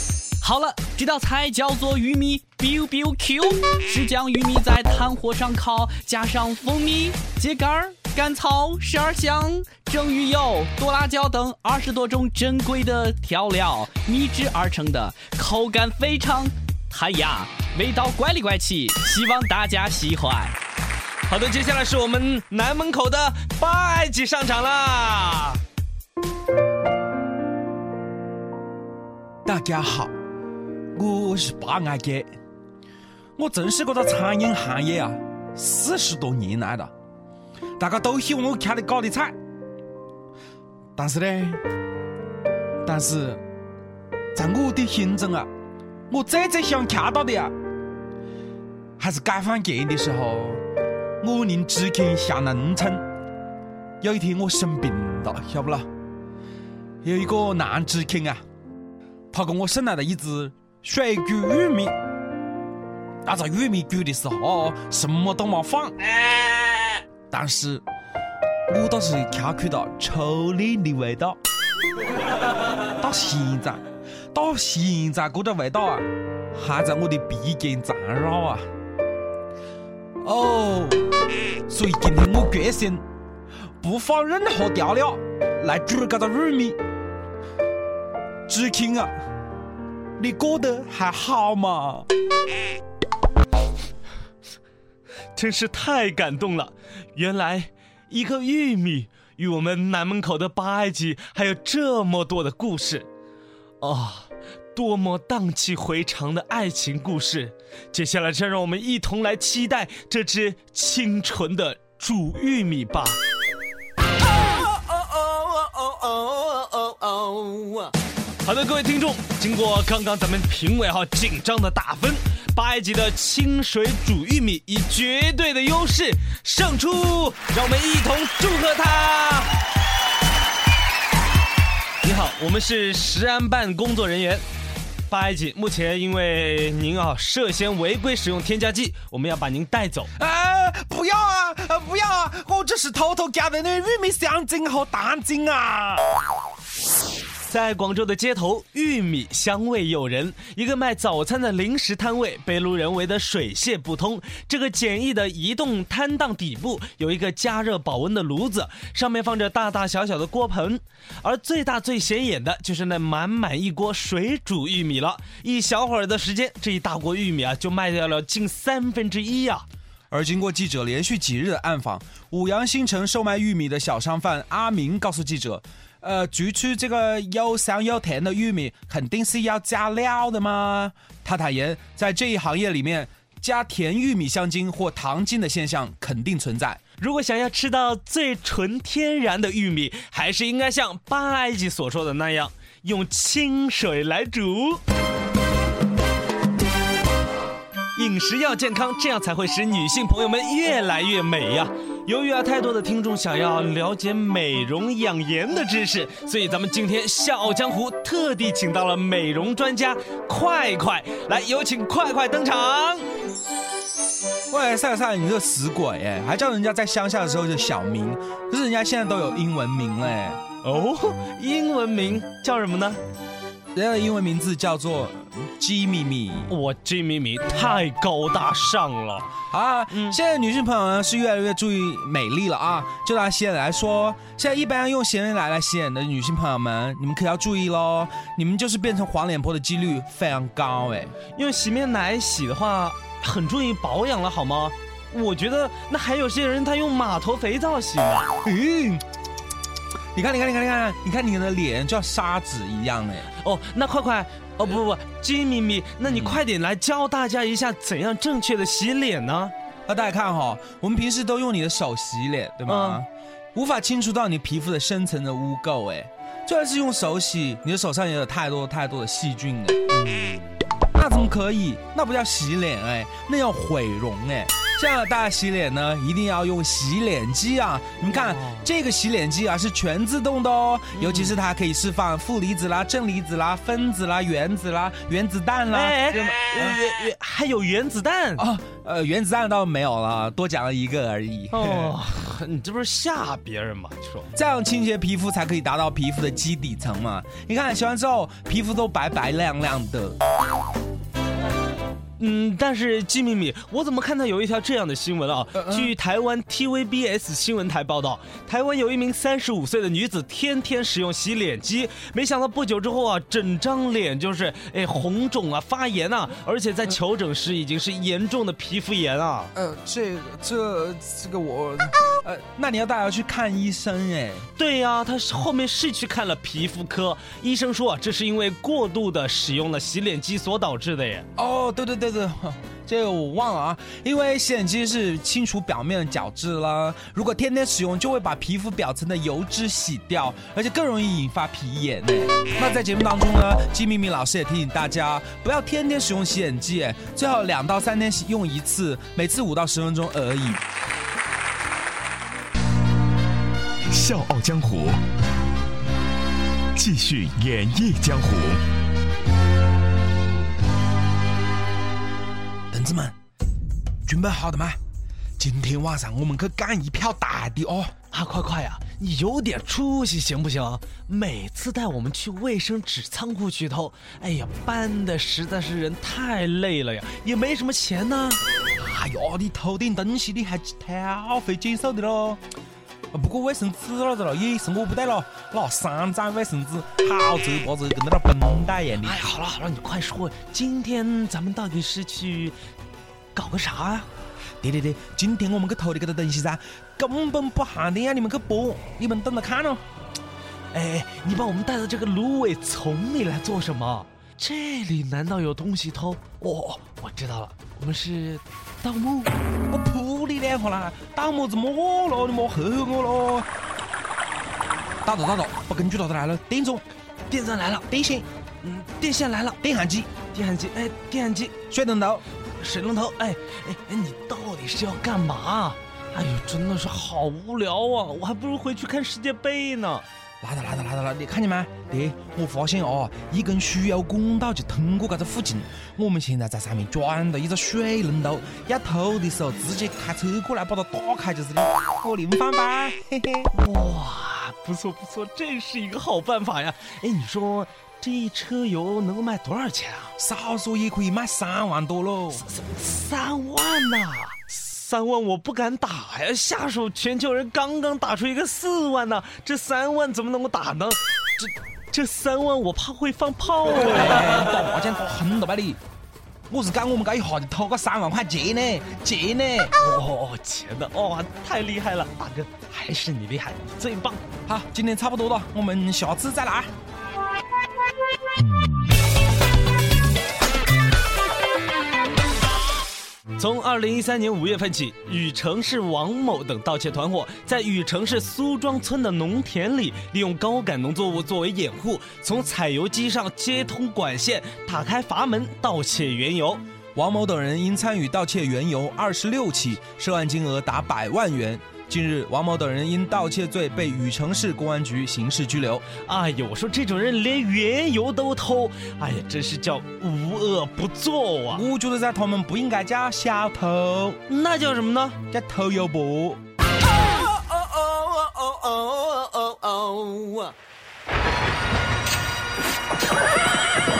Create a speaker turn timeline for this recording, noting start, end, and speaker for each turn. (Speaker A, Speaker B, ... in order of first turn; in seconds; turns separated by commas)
Speaker A: 0.4-20.5, Speaker B: 21.3-25.6, Speaker C: 29.4-30.1, Speaker C: 30.9-32.3, Speaker C: 33.4-36.9, Speaker C: 37.8-39.4, Speaker C: 41.0-41.6, Speaker C: 42.8-43.4, Speaker C: 44.3-45.5, Speaker C: 46.1-47.5, Speaker C: 49.0-50.6, Speaker C: 51.2-53.0, Speaker C: 54.0-55.9, Speaker C: 57.0-58.4, Speaker C: 59.3-61.9, Speaker C: 63.2-66.0, Speaker C: 67.3-67.8, Speaker C: 68.7-71.4, Speaker C: 73.0-73.8, Speaker C: 74.3-78.6, Speaker C: 80.2-81.0, Speaker C: 81.7-83.0, Speaker C: 83.8-86.8, Speaker C: 88.5-89.1, Speaker C: 90.2-92.1, Speaker B: 95.3-103.1, Speaker B: 103.8-113.2, Speaker B: 114.4-129.6, Speaker B: 132.0-134.4, Speaker B: 135.1-140.1, Speaker C: 140.2-146.1, Speaker B: 147.4-169.7, Speaker C: 170.1-186.8, Speaker B: 187.0-194.8, Speaker B: 197.9-213.1, Speaker C: 214.5-220.4, Speaker B: 220.6-223.0, Speaker C: 223.7-226.5, Speaker B: 226.5-229.3, Speaker C: 229.5-241.1, Speaker B: 229.9-230.2, Speaker B: 241.3-248.3, Speaker C: 248.4-249.0, Speaker C: 250.1-253.3, Speaker B: 253.4-259.5, Speaker C: 256.0-256.4, Speaker C: 259.9-269.9, Speaker B: 262.6-263.0, Speaker C: 270.9-286.8, Speaker B: 278.1-278.7, Speaker B: 281.0-281.4, Speaker B: 285.7-288.5, Speaker C: 288.4-291.9, Speaker B: 291.5-294.3, Speaker C: 294.4-300.2, Speaker B: 302.2-319.5, Speaker C: 305.5-305.9, Speaker C: 319.5-324.5, Speaker B: 324.6-331.2, Speaker C: 331.4-350.6, Speaker D: 353.9-355.0, Speaker D: 356.8-358.6, Speaker C: 362.7-363.1, Speaker C: 364.1-364.8, Speaker C: 365.4-367.9, Speaker B: 368.1-378.4, Speaker C: 378.8-382.4, Speaker C: 383.1-389.2, Speaker B: 389.0-392.6, Speaker B: 393.3-394.1, Speaker C: 394.6-399.8, Speaker B: 400.7-409.3, Speaker C: 409.7-413.5, Speaker C: 415.0-416.8, Speaker B: 417.3-417.9, Speaker C: 417.9-418.3, Speaker B: 418.6-419.6, Speaker C: 419.6-420.1, Speaker B: 420.2-421.5, Speaker C: 421.7-422.2, Speaker B: 422.6-430.1, Speaker C: 430.4-443.5, Speaker B: 443.5-450.1, Speaker C: 450.2-452.4, Speaker B: 452.3-464.5, Speaker C: 463.8-465.8, Speaker C: 466.5-469.7, Speaker B: 469.8-474.2, Speaker C: 474.5-476.7, Speaker B: 483.4-496.6, Speaker C: 496.9-505.8, Speaker B: 506.0-511.6, Speaker C: 511.5-514.2, Speaker B: 514.3-515.2, Speaker C: 515.3-516.4, Speaker B: 517.1-520.5